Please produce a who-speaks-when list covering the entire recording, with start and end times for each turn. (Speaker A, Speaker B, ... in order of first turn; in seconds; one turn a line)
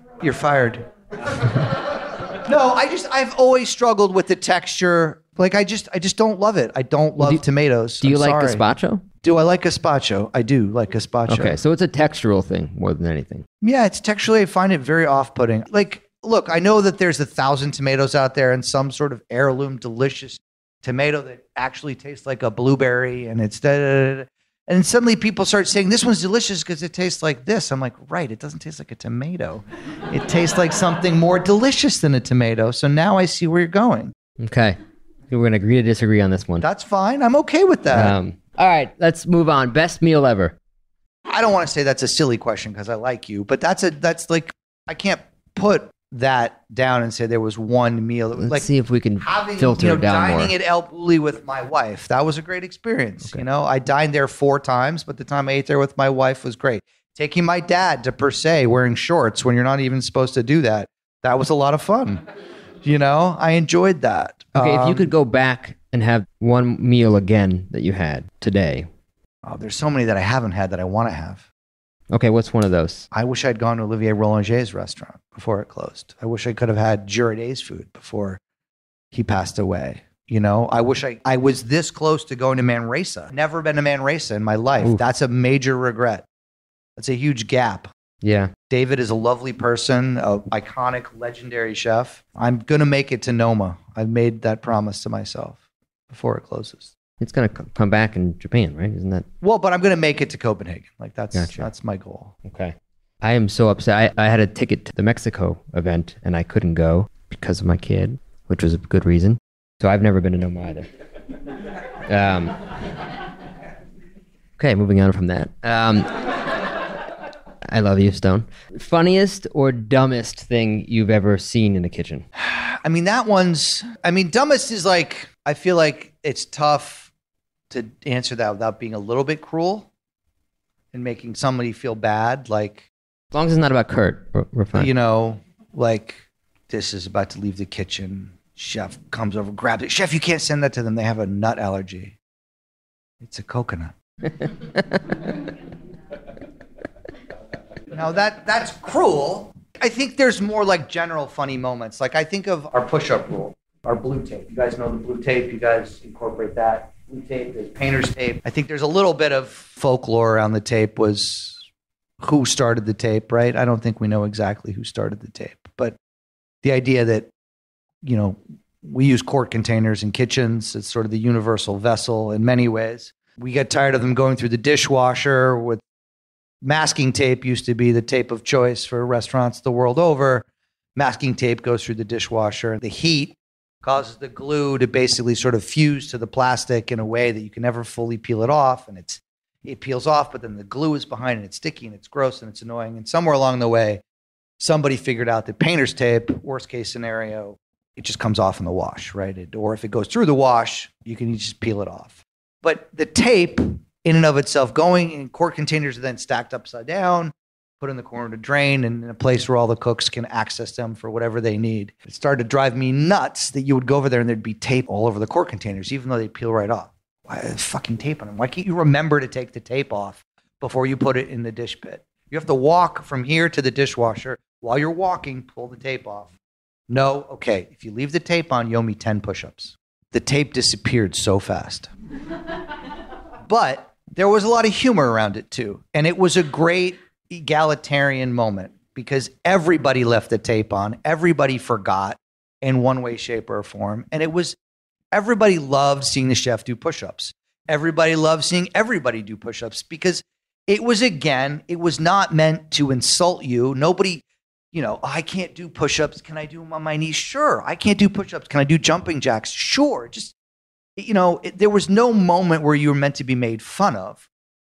Speaker A: 0.2-0.9
Speaker A: 2.4-8.7
Speaker B: 7.2-7.4
Speaker B: 8.0-9.0
Speaker A: 9.2-11.6
Speaker B: 11.3-13.5
Speaker A: 13.6-34.1
Speaker B: 34.4-34.8
Speaker B: 35.3-36.7
Speaker A: 36.6-38.1
Speaker B: 37.9-40.6
Speaker A: 41.3-48.7
Speaker B: 48.4-50.5
Speaker A: 49.2-62.2
Speaker A: 62.8-65.1
Speaker B: 64.6-68.9
Speaker A: 69.4-71.5
Speaker B: 72.1-73.1
Speaker A: 73.1-78.4
Speaker A: 79.1-86.3
Speaker A: 87.0-87.9
Speaker B: 88.2-88.5
Speaker A: 88.7-96.9
Speaker B: 97.2-99.3
Speaker A: 99.4-102.3
Speaker B: 101.3-101.7
Speaker B: 102.5-110.9
Speaker B: 112.1-112.6
Speaker B: 114.6-116.1
Speaker B: 117.7-122.3
Speaker A: 122.4-127.1
Speaker A: 127.7-129.9
Speaker A: 130.9-132.9
Speaker B: 133.3-134.9
Speaker A: 134.7-142.2
Speaker A: 143.2-143.9
Speaker B: 144.4-145.2
Speaker A: 147.9-161.7
Speaker A: 162.2-166.0
Speaker A: 166.6-167.3
Speaker A: 168.0-175.8
Speaker A: 176.6-180.4
Speaker A: 181.0-194.0
Speaker A: 194.6-226.3
Speaker A: 226.9-231.9
Speaker A: 233.4-244.6
Speaker A: 245.1-260.3
Speaker A: 261.0-264.3